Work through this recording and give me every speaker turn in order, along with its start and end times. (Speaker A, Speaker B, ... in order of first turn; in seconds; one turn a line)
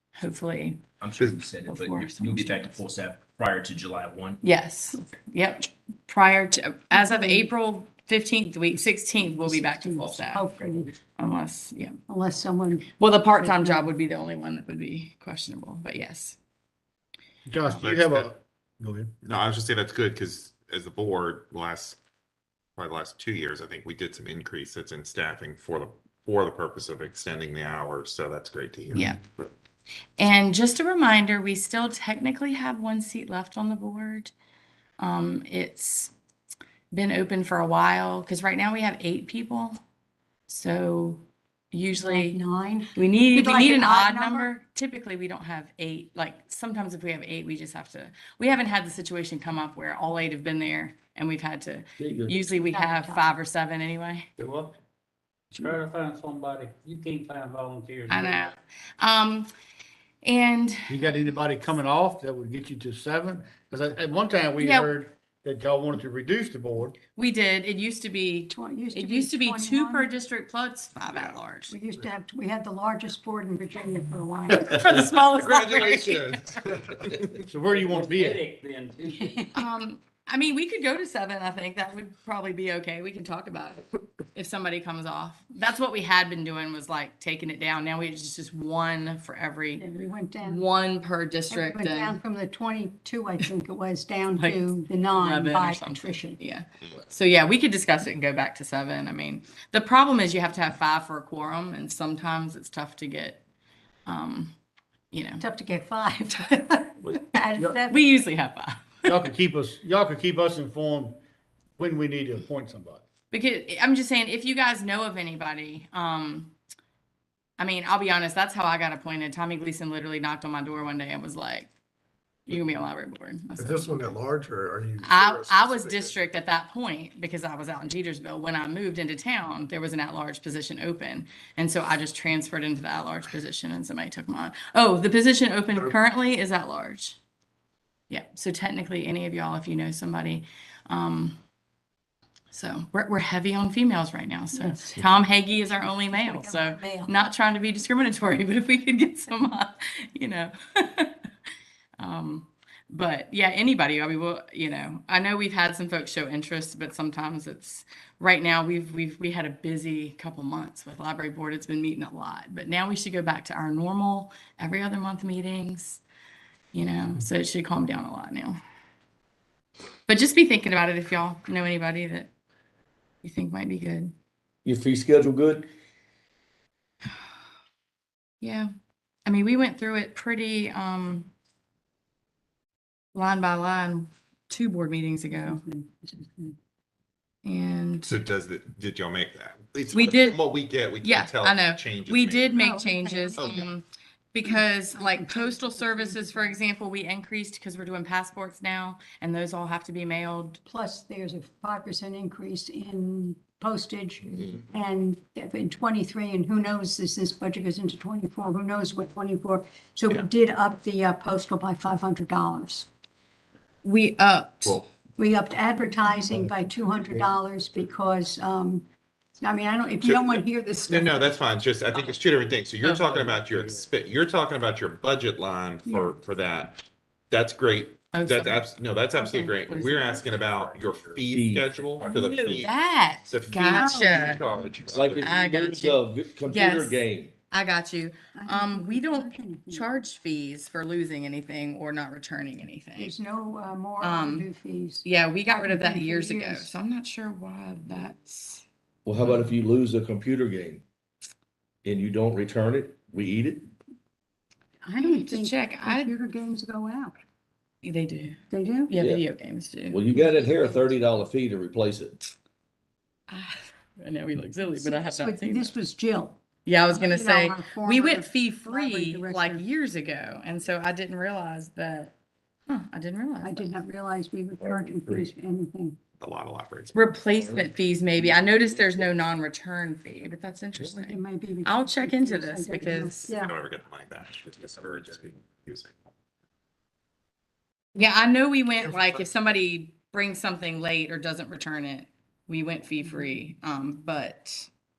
Speaker A: 0.2-0.8
Speaker B: 1.0-4.4
Speaker A: 1.7-2.7
Speaker A: 4.4-10.4
Speaker C: 6.9-7.5
Speaker C: 9.5-10.9
Speaker A: 11.2-12.0
Speaker C: 12.1-12.9
Speaker A: 13.0-16.4
Speaker C: 13.4-13.8
Speaker D: 17.5-19.1
Speaker E: 17.7-18.3
Speaker E: 19.2-22.0
Speaker E: 22.8-29.5
Speaker A: 28.9-29.2
Speaker A: 30.2-34.3
Speaker A: 35.0-36.1
Speaker A: 36.9-39.8
Speaker A: 40.5-42.4
Speaker C: 42.0-44.5
Speaker A: 43.0-54.3
Speaker F: 52.0-52.4
Speaker C: 52.7-53.3
Speaker G: 54.4-54.7
Speaker G: 55.5-58.4
Speaker A: 58.1-59.5
Speaker A: 60.2-60.9
Speaker D: 60.9-67.0
Speaker A: 64.6-64.9
Speaker A: 67.2-71.8
Speaker C: 68.5-70.1
Speaker C: 71.7-74.8
Speaker A: 74.5-76.4
Speaker E: 75.0-77.4
Speaker D: 77.5-78.5
Speaker G: 77.7-79.5
Speaker A: 79.5-89.8
Speaker C: 89.8-90.6
Speaker A: 90.4-92.2
Speaker C: 91.5-96.4
Speaker A: 95.2-103.4
Speaker A: 104.1-104.5
Speaker A: 105.1-105.5
Speaker C: 105.4-108.1
Speaker A: 107.9-109.0
Speaker D: 109.0-111.2
Speaker D: 111.8-113.0
Speaker A: 113.3-116.5
Speaker A: 117.6-121.7
Speaker A: 122.5-124.0
Speaker H: 123.6-126.0
Speaker A: 125.0-137.2
Speaker A: 138.1-141.4
Speaker A: 142.5-151.2
Speaker C: 144.6-145.1
Speaker C: 146.1-147.1
Speaker A: 152.0-166.0
Speaker A: 166.7-168.6
Speaker A: 170.1-172.3
Speaker A: 173.2-174.1
Speaker F: 174.7-175.7
Speaker A: 178.4-178.7
Speaker A: 179.3-181.3
Speaker A: 183.1-185.6
Speaker C: 185.3-186.6
Speaker A: 187.4-188.1
Speaker E: 188.1-192.6
Speaker A: 189.9-190.4
Speaker A: 191.0-200.6
Speaker C: 192.5-193.6
Speaker E: 193.4-193.7
Speaker C: 194.5-196.5
Speaker C: 200.7-212.9
Speaker A: 213.8-214.8
Speaker C: 215.2-218.8
Speaker C: 219.4-221.3
Speaker E: 220.0-232.7
Speaker A: 222.8-223.1
Speaker C: 225.9-226.1
Speaker A: 228.1-228.6
Speaker A: 229.2-230.3
Speaker F: 231.3-231.7
Speaker A: 232.0-234.4
Speaker E: 233.2-235.3
Speaker C: 233.7-234.3
Speaker F: 234.9-237.3
Speaker A: 235.2-237.0
Speaker A: 237.5-243.1
Speaker C: 238.3-239.9
Speaker C: 243.0-246.7
Speaker A: 244.0-244.5
Speaker A: 245.0-248.7
Speaker F: 249.1-250.8
Speaker F: 251.8-253.7
Speaker C: 254.8-257.2
Speaker A: 255.0-256.1
Speaker A: 257.8-260.0
Speaker C: 258.5-258.9
Speaker F: 259.9-262.2
Speaker C: 260.2-260.8
Speaker A: 263.3-265.7
Speaker C: 264.8-269.6
Speaker A: 266.6-272.1
Speaker A: 272.7-273.7
Speaker C: 273.4-276.0
Speaker E: 276.2-277.0
Speaker A: 276.9-283.4
Speaker C: 280.8-283.6
Speaker E: 283.4-285.9
Speaker A: 287.9-294.7